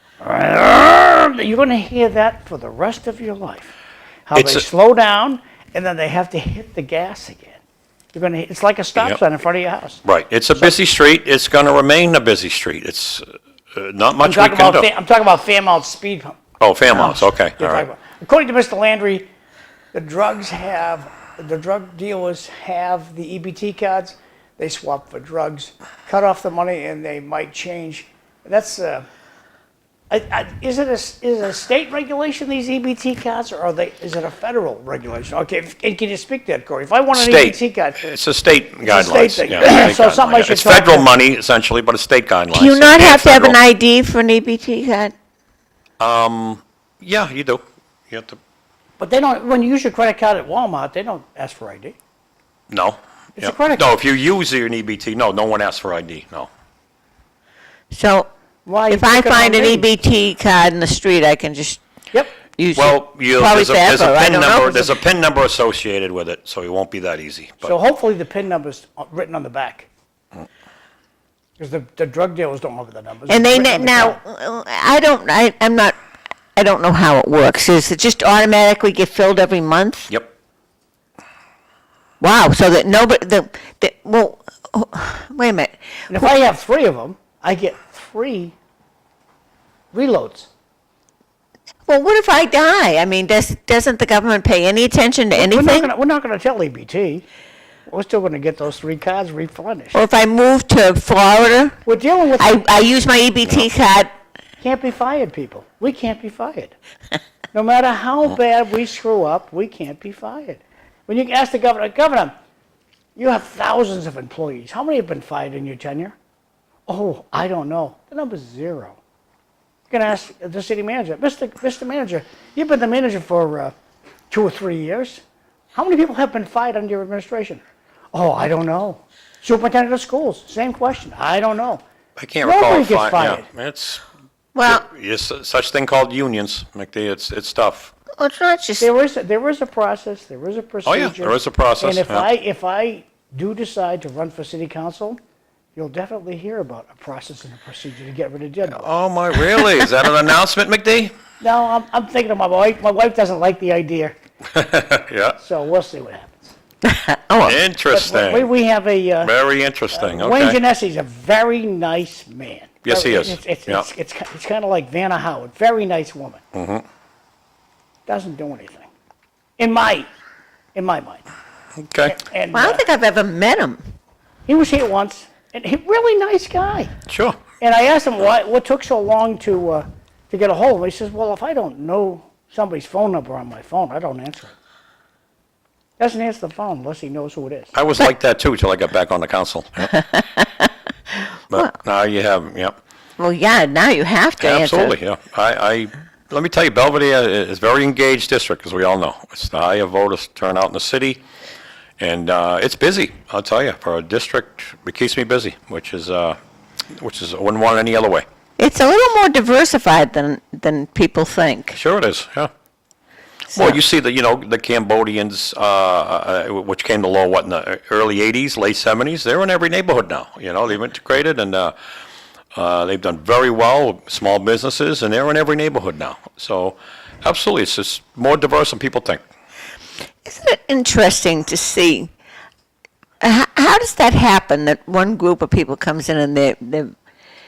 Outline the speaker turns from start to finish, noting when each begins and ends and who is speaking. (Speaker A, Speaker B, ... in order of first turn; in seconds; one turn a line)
Speaker A: 0.2-3.7
Speaker A: 4.3-7.6
Speaker B: 4.3-4.7
Speaker A: 8.1-10.0
Speaker B: 10.0-14.9
Speaker A: 14.2-19.3
Speaker B: 16.6-17.9
Speaker A: 19.9-29.1
Speaker A: 30.1-38.1
Speaker B: 37.1-43.6
Speaker A: 38.8-41.1
Speaker C: 42.5-45.1
Speaker B: 46.0-48.4
Speaker A: 49.0-52.0
Speaker B: 52.7-56.5
Speaker A: 53.4-53.9
Speaker C: 57.9-58.3
Speaker A: 58.6-59.9
Speaker C: 58.9-61.8
Speaker C: 62.6-64.9
Speaker B: 62.7-67.7
Speaker A: 67.6-69.9
Speaker A: 71.6-74.2
Speaker C: 73.3-75.9
Speaker C: 76.5-80.1
Speaker C: 82.2-86.3
Speaker A: 86.1-88.5
Speaker A: 89.9-90.5
Speaker C: 91.9-95.9
Speaker A: 95.3-97.2
Speaker A: 97.9-100.0
Speaker C: 99.9-101.8
Speaker A: 101.8-102.6
Speaker C: 102.4-104.1
Speaker A: 104.6-106.7
Speaker A: 107.5-112.3
Speaker A: 113.2-116.1
Speaker A: 116.9-119.0
Speaker A: 119.9-123.7
Speaker A: 124.3-125.2
Speaker A: 125.7-127.6
Speaker A: 128.1-131.8
Speaker B: 132.2-134.0
Speaker A: 132.4-133.4
Speaker C: 134.5-134.8
Speaker B: 134.6-137.9
Speaker C: 138.2-138.9
Speaker A: 138.8-145.2
Speaker B: 140.8-142.3
Speaker A: 145.8-148.9
Speaker B: 148.7-151.1
Speaker A: 151.4-154.2
Speaker B: 154.5-155.4
Speaker A: 155.4-156.5
Speaker C: 156.9-157.6
Speaker B: 157.4-158.5
Speaker A: 157.9-159.3
Speaker B: 159.2-160.6
Speaker A: 159.9-166.4
Speaker B: 162.8-163.9
Speaker B: 166.5-166.8
Speaker A: 168.1-168.9
Speaker A: 169.6-170.1
Speaker A: 170.7-171.3
Speaker B: 171.8-172.2
Speaker A: 172.1-172.8
Speaker C: 172.5-173.8
Speaker A: 174.5-176.9
Speaker B: 177.1-177.4
Speaker A: 177.6-184.5
Speaker A: 186.0-187.7
Speaker B: 187.7-189.9
Speaker C: 190.0-190.5
Speaker B: 191.5-192.7
Speaker C: 193.2-194.9
Speaker B: 194.4-201.2
Speaker B: 202.0-206.4
Speaker B: 206.9-208.2
Speaker C: 208.6-211.8
Speaker B: 211.7-212.5
Speaker C: 213.5-213.8
Speaker B: 213.5-221.7
Speaker B: 222.5-229.2
Speaker C: 230.2-232.1
Speaker C: 233.2-236.9